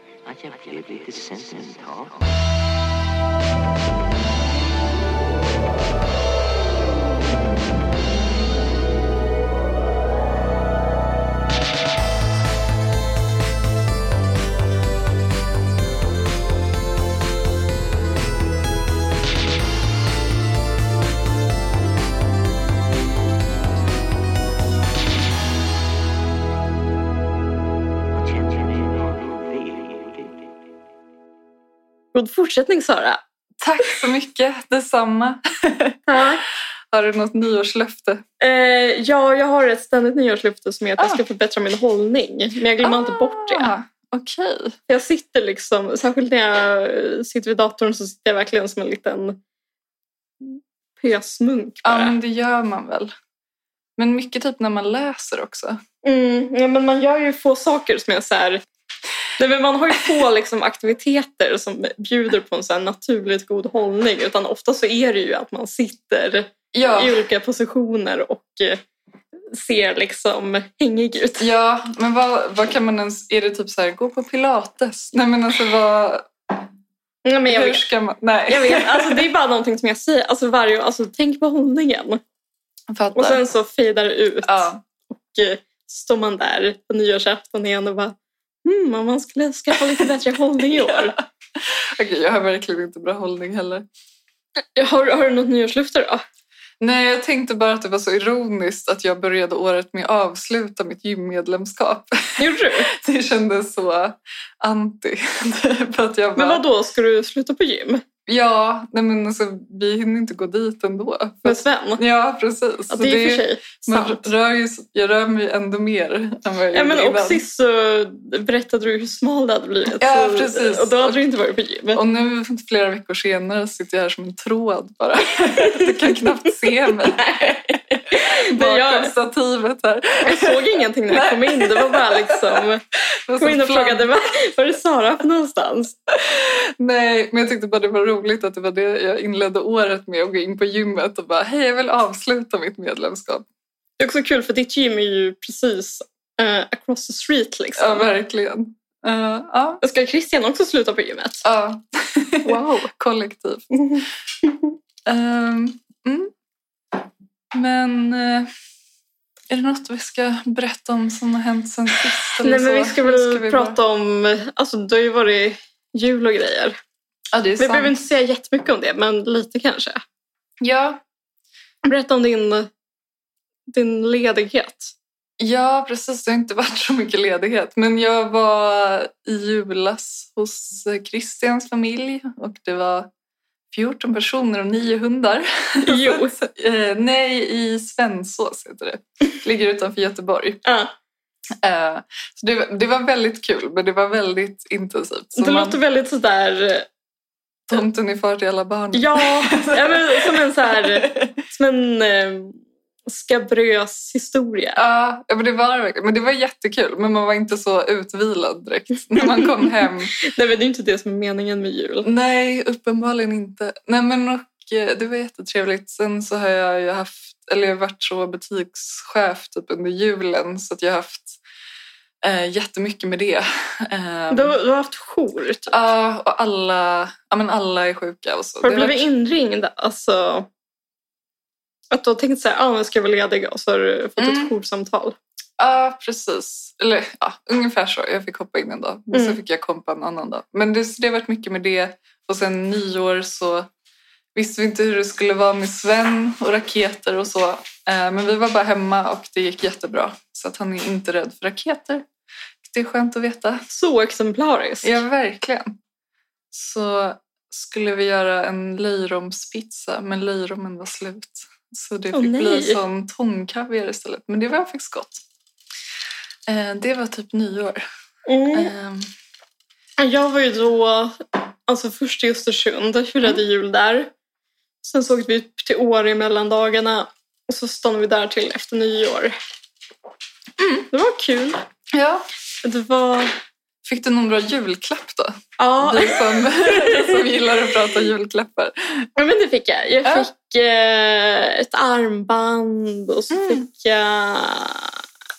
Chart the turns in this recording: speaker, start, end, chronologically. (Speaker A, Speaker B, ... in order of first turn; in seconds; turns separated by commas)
Speaker A: 0.2-2.3, Speaker A: 28.1-30.6, Speaker B: 32.1-33.2, Speaker C: 33.6-36.0, Speaker B: 36.1-36.4, Speaker C: 36.9-38.2, Speaker B: 38.4-43.7, Speaker C: 42.8-44.8, Speaker B: 44.9-49.4, Speaker B: 50.4-52.1, Speaker C: 51.8-53.1, Speaker C: 54.0-55.8, Speaker B: 56.0-58.6, Speaker B: 59.4-68.8, Speaker C: 66.7-67.1, Speaker B: 69.5-71.5, Speaker C: 71.4-76.6, Speaker B: 77.2-77.8, Speaker C: 77.5-79.3, Speaker B: 78.5-82.2, Speaker C: 82.9-83.4, Speaker B: 83.2-91.2, Speaker C: 84.5-84.8, Speaker C: 90.6-93.9, Speaker B: 94.8-96.2, Speaker C: 96.8-106.6, Speaker B: 102.4-102.9, Speaker B: 106.4-108.0, Speaker C: 108.3-117.4, Speaker B: 111.5-112.0, Speaker B: 112.9-114.3, Speaker B: 116.7-122.0, Speaker C: 120.0-121.2, Speaker C: 121.9-132.7, Speaker B: 125.4-126.2, Speaker B: 127.1-129.1, Speaker B: 130.2-132.8, Speaker C: 133.3-134.1, Speaker B: 133.4-136.0, Speaker C: 136.1-143.4, Speaker B: 144.0-148.1, Speaker C: 147.8-149.8, Speaker B: 149.8-151.4, Speaker C: 151.4-153.7, Speaker B: 152.4-152.9, Speaker B: 153.7-154.8, Speaker C: 155.1-156.3, Speaker C: 157.5-158.5, Speaker C: 159.5-163.8, Speaker B: 162.4-166.8, Speaker C: 167.3-168.0, Speaker B: 167.6-170.0, Speaker C: 170.6-171.0, Speaker B: 171.8-172.7, Speaker B: 173.7-174.9, Speaker C: 175.4-183.1, Speaker C: 183.7-190.6, Speaker B: 185.8-186.4, Speaker B: 190.7-190.9, Speaker C: 191.6-195.8, Speaker B: 195.3-196.9, Speaker C: 197.7-201.3, Speaker B: 198.9-204.8, Speaker C: 204.8-210.1, Speaker B: 209.2-212.1, Speaker C: 212.0-221.4, Speaker C: 222.2-224.6, Speaker B: 224.3-225.8, Speaker C: 225.7-229.1, Speaker B: 228.6-230.5, Speaker B: 231.9-235.2, Speaker C: 234.2-234.5, Speaker C: 235.6-243.7, Speaker B: 239.1-239.4, Speaker C: 244.3-252.1, Speaker C: 252.6-253.6, Speaker B: 253.7-255.0, Speaker C: 254.8-255.8, Speaker C: 256.5-265.2, Speaker B: 262.1-262.8, Speaker C: 266.5-267.8, Speaker B: 268.3-268.7, Speaker C: 268.5-269.1, Speaker B: 270.0-274.1, Speaker B: 274.8-279.4, Speaker B: 280.9-281.6, Speaker C: 281.9-282.3, Speaker B: 282.6-283.3, Speaker C: 283.8-289.1, Speaker B: 285.6-287.2, Speaker B: 289.2-295.0, Speaker C: 293.3-293.6